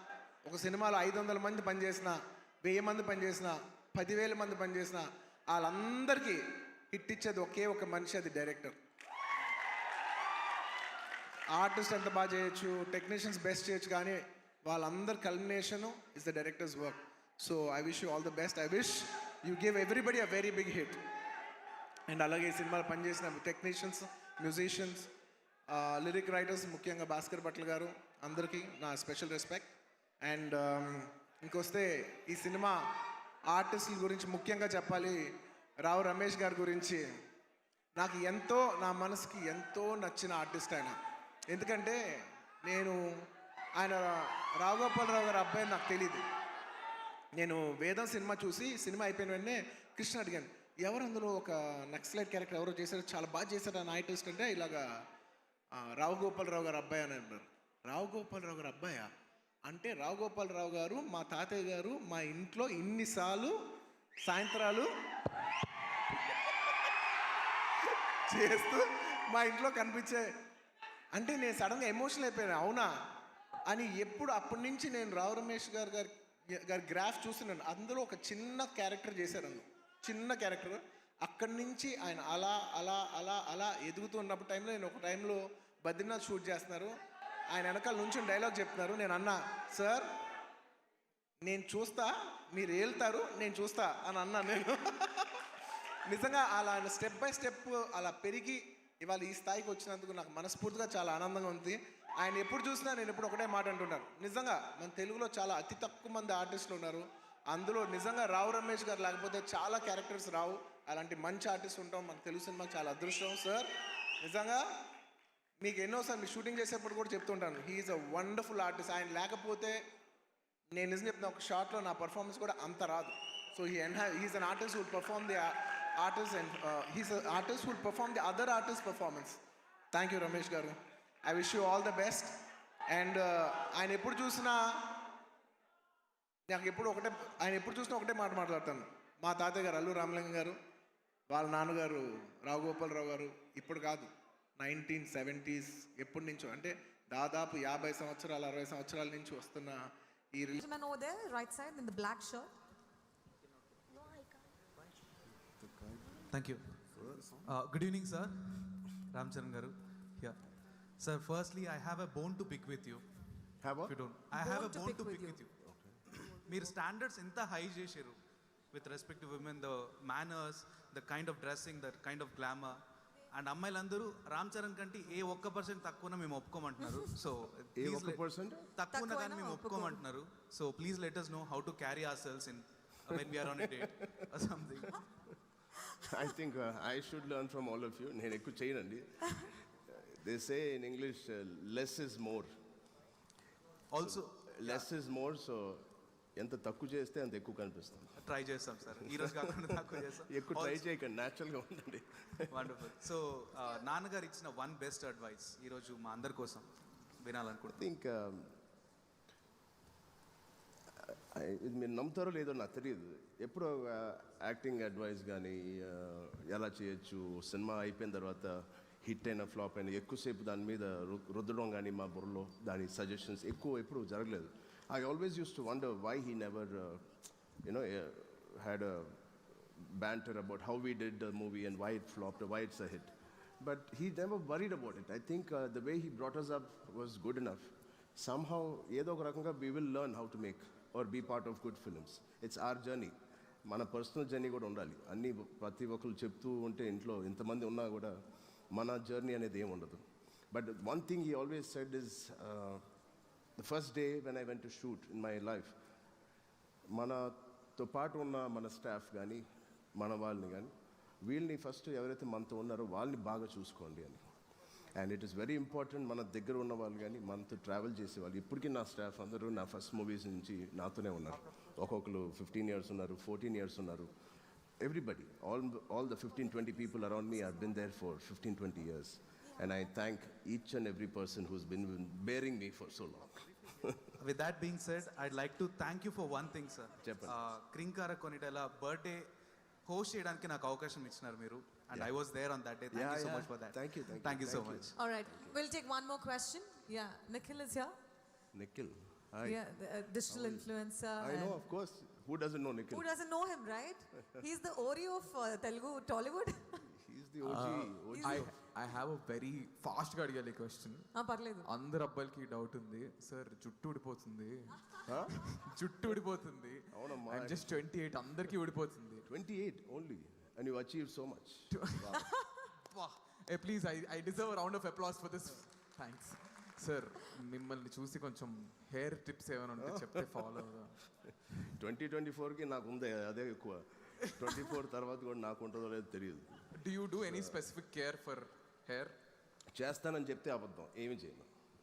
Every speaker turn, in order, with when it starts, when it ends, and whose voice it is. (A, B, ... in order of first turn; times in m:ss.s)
0:00.4-0:08.8 A
0:11.5-0:21.0 A
0:22.1-0:25.1 A
0:25.7-0:32.8 A
0:33.5-0:35.3 A
0:35.8-0:37.0 A
0:38.0-0:41.0 A
0:41.5-0:42.0 A
0:42.6-0:43.0 A
0:43.8-0:46.2 A
0:47.4-0:54.8 A
0:55.7-0:59.1 A
0:59.7-1:03.6 A
1:04.2-1:04.9 A
1:08.3-1:10.3 A
1:11.1-1:12.9 A
1:13.7-1:26.9 A
1:27.5-1:30.1 A
1:31.4-1:35.3 A
1:36.1-1:53.7 A
1:54.2-1:54.6 A
1:55.6-1:59.8 A
2:00.7-2:09.4 A
2:09.9-2:12.3 A
2:12.9-2:14.9 A
2:16.5-2:20.6 A
2:21.3-2:29.8 A
2:30.3-2:30.6 A
2:30.6-2:32.5 B
2:36.3-2:36.8 C
2:36.9-2:37.4 D
2:37.4-2:40.4 C
2:41.0-2:43.2 C
2:43.6-2:43.9 D
2:43.8-2:45.5 C
2:44.3-2:45.4 B
2:45.6-2:46.0 D
2:46.2-2:48.2 C
2:48.7-2:52.8 C
2:53.3-2:58.2 C
2:57.8-2:58.6 D
2:58.7-3:05.0 C
2:58.9-3:00.0 B
3:03.6-3:03.9 D
3:06.0-3:12.5 D
3:13.9-3:14.9 C
3:14.0-3:18.2 D
3:18.2-3:20.8 C
3:19.0-3:22.8 D
3:22.5-3:26.7 C
3:27.2-3:27.8 C
3:27.8-3:28.6 D
3:31.0-3:47.0 D
3:47.6-4:03.1 D
4:03.6-4:08.2 D
4:08.7-4:12.8 D
4:13.6-4:15.7 D
4:16.9-4:19.4 D
4:19.9-4:20.7 D
4:21.2-4:24.2 D
4:24.9-4:34.1 D
4:34.8-4:44.1 D
4:44.2-4:49.3 C
4:47.0-4:47.4 D
4:49.8-4:55.0 C
4:52.9-4:55.6 D
4:55.0-4:57.9 B
4:58.5-4:59.6 D
4:59.4-5:01.6 B
5:00.3-5:03.1 D
5:02.9-5:06.8 B
5:07.0-5:08.5 D
5:07.4-5:11.1 E
5:08.1-5:08.4 B
5:11.1-5:11.7 B
5:11.6-5:19.3 E
5:15.0-5:15.3 D
5:16.9-5:17.8 D
5:19.3-5:22.2 D
5:21.7-5:22.2 E
5:22.2-5:22.5 B
5:22.9-5:31.0 E
5:29.8-5:30.4 D
5:31.6-5:36.6 D
5:36.7-5:39.1 E
5:37.2-5:37.6 D
5:39.7-5:41.5 D